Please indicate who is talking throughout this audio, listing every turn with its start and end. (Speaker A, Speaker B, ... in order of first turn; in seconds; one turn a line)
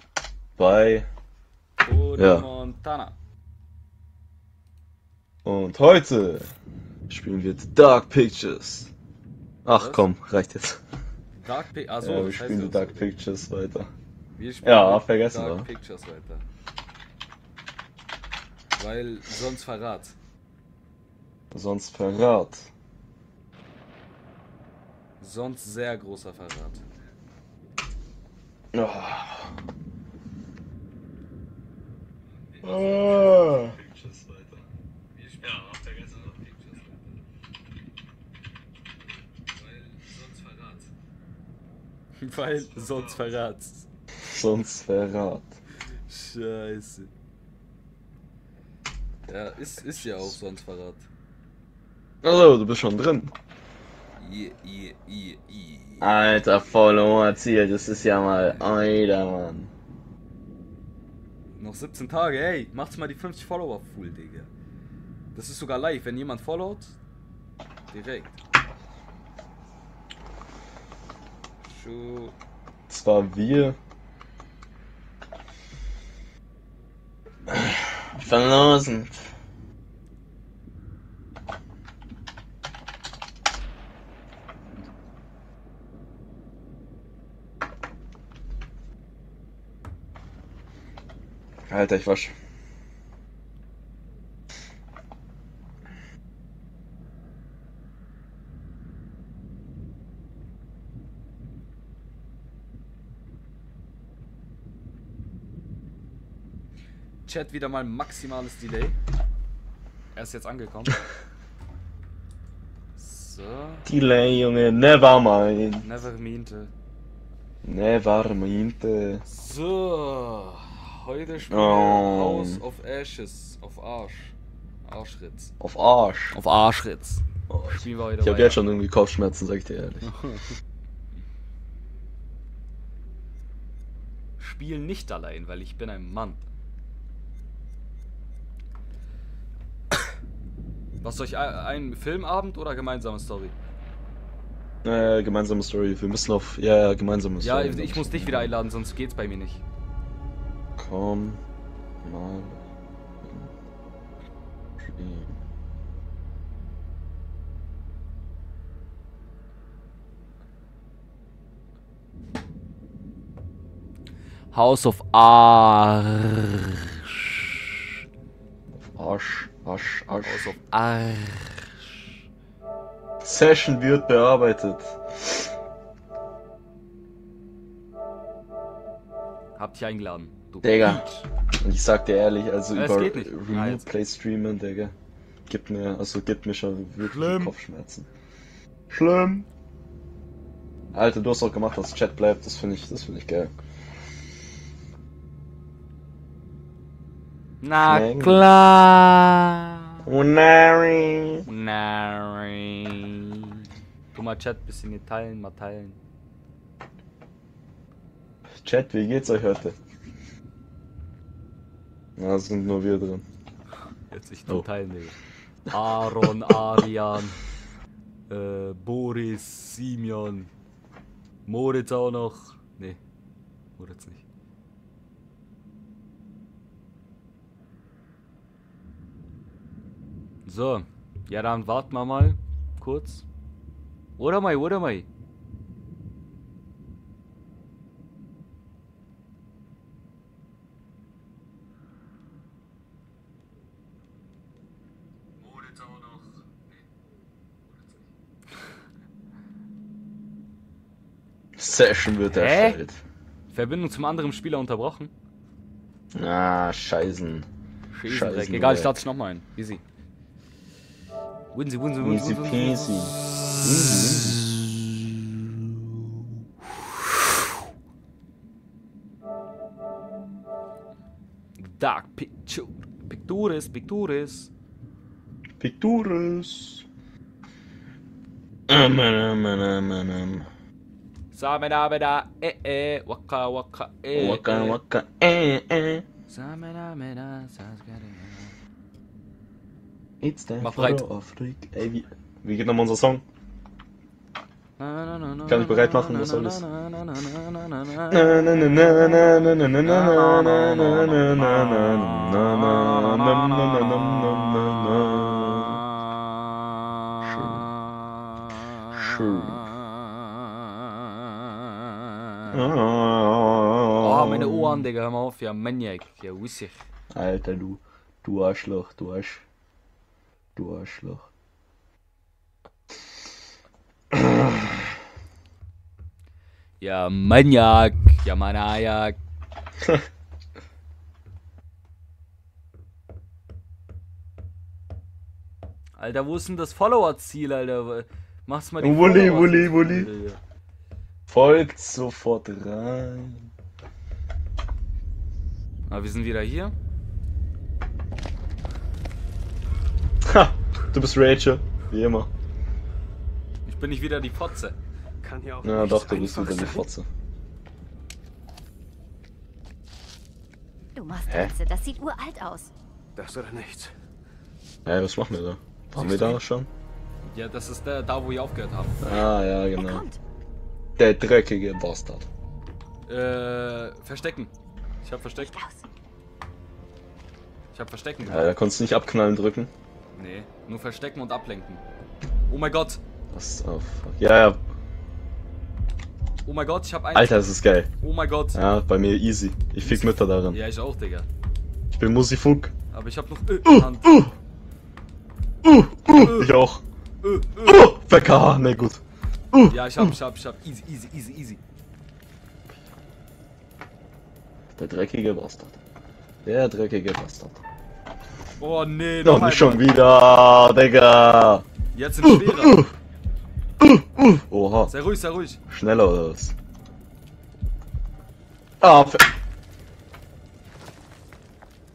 Speaker A: 0.6-1.1
Speaker B: 1.8-3.1
Speaker A: 2.1-2.5
Speaker A: 5.4-6.5
Speaker A: 7.1-8.9
Speaker A: 9.6-10.8
Speaker B: 9.7-10.1
Speaker B: 11.4-13.1
Speaker A: 12.0-13.9
Speaker B: 14.3-16.4
Speaker A: 14.6-15.7
Speaker B: 18.8-20.1
Speaker A: 21.5-22.7
Speaker B: 25.2-26.8
Speaker A: 28.7-29.5
Speaker A: 32.6-33.8
Speaker B: 32.7-33.0
Speaker B: 35.3-36.8
Speaker B: 39.8-40.9
Speaker B: 42.2-43.9
Speaker A: 44.1-45.6
Speaker B: 46.1-47.1
Speaker B: 49.3-51.1
Speaker A: 50.0-50.3
Speaker A: 52.2-53.3
Speaker B: 54.2-56.1
Speaker A: 56.0-59.7
Speaker B: 61.5-64.5
Speaker B: 65.3-67.0
Speaker B: 67.9-68.4
Speaker B: 71.6-72.3
Speaker A: 72.9-73.8
Speaker A: 77.5-79.2
Speaker A: 91.7-92.3
Speaker B: 107.2-109.0
Speaker B: 110.1-111.0
Speaker B: 113.0-113.9
Speaker A: 113.8-115.9
Speaker B: 115.8-116.7
Speaker A: 117.6-119.2
Speaker B: 119.2-125.5
Speaker A: 121.5-122.6
Speaker A: 125.6-126.4
Speaker B: 126.3-128.6
Speaker A: 127.5-130.1
Speaker B: 130.1-130.5
Speaker B: 134.4-136.4
Speaker B: 141.0-143.5
Speaker A: 144.8-148.5
Speaker B: 147.4-149.6
Speaker A: 150.8-151.4
Speaker A: 152.0-152.6
Speaker A: 153.2-153.5
Speaker A: 154.8-155.4
Speaker B: 164.5-166.4
Speaker A: 168.8-170.5
Speaker B: 170.2-172.0
Speaker A: 173.2-175.5
Speaker B: 179.6-181.2
Speaker A: 180.6-181.1
Speaker A: 181.6-184.9
Speaker B: 182.7-183.9
Speaker A: 185.5-188.1
Speaker B: 187.0-187.5
Speaker A: 188.9-189.5
Speaker A: 190.9-193.5
Speaker B: 197.6-198.9
Speaker A: 197.8-198.5
Speaker A: 200.1-201.4
Speaker B: 201.5-203.1
Speaker B: 204.1-206.0
Speaker A: 208.6-209.8
Speaker A: 212.2-213.2
Speaker B: 214.1-215.2
Speaker B: 215.7-217.4
Speaker B: 218.3-220.5
Speaker B: 221.5-223.0
Speaker B: 223.8-224.2
Speaker B: 230.4-233.2
Speaker B: 234.2-235.1
Speaker B: 245.5-246.2
Speaker A: 251.6-253.0
Speaker B: 252.3-252.8
Speaker B: 253.5-255.1
Speaker A: 256.1-257.5
Speaker B: 257.9-259.8
Speaker A: 258.0-258.9
Speaker B: 261.5-263.5
Speaker A: 262.0-264.4
Speaker B: 271.6-274.5
Speaker A: 275.6-276.8
Speaker A: 278.7-280.5
Speaker B: 281.3-284.8
Speaker A: 284.1-286.0
Speaker B: 286.3-288.5
Speaker A: 290.2-293.2
Speaker B: 290.6-291.0
Speaker B: 294.8-298.2
Speaker A: 295.5-296.6
Speaker A: 298.1-305.8
Speaker B: 299.8-301.9
Speaker B: 302.9-303.4
Speaker A: 307.2-307.7
Speaker A: 308.9-309.6
Speaker B: 311.4-312.6
Speaker A: 312.5-314.9
Speaker B: 314.0-316.8
Speaker A: 317.1-319.4
Speaker A: 320.6-321.3
Speaker A: 324.1-324.8
Speaker B: 326.8-329.2
Speaker B: 336.0-340.4
Speaker A: 338.8-340.1
Speaker A: 341.3-343.5
Speaker B: 345.9-346.7
Speaker A: 350.2-352.3
Speaker B: 353.6-354.8
Speaker C: 355.2-356.8
Speaker A: 355.6-357.1
Speaker D: 360.9-362.7
Speaker A: 361.3-361.5
Speaker C: 363.1-363.9
Speaker A: 364.8-366.7
Speaker B: 365.9-366.4
Speaker B: 367.2-369.0
Speaker A: 369.0-370.0
Speaker D: 369.8-370.2
Speaker A: 371.0-372.3
Speaker B: 373.1-375.5
Speaker D: 375.4-375.9
Speaker B: 377.7-378.6
Speaker A: 378.2-379.7
Speaker B: 380.1-381.8
Speaker B: 382.5-383.0
Speaker A: 383.3-384.6
Speaker B: 386.4-387.5
Speaker A: 387.1-387.9
Speaker B: 388.0-388.6
Speaker A: 388.5-390.6
Speaker B: 389.8-391.3
Speaker A: 391.9-392.7
Speaker B: 392.9-394.3
Speaker A: 393.6-394.3
Speaker A: 395.6-396.8
Speaker B: 396.1-396.6
Speaker B: 397.2-397.9
Speaker A: 397.6-399.0
Speaker A: 399.5-400.1
Speaker B: 399.7-401.6
Speaker A: 404.8-405.8
Speaker A: 406.4-407.6
Speaker B: 408.6-410.6
Speaker A: 409.2-411.6
Speaker B: 411.9-412.9
Speaker A: 412.2-412.9
Speaker A: 413.8-414.9
Speaker B: 414.9-415.6
Speaker A: 415.7-416.5
Speaker A: 418.8-419.3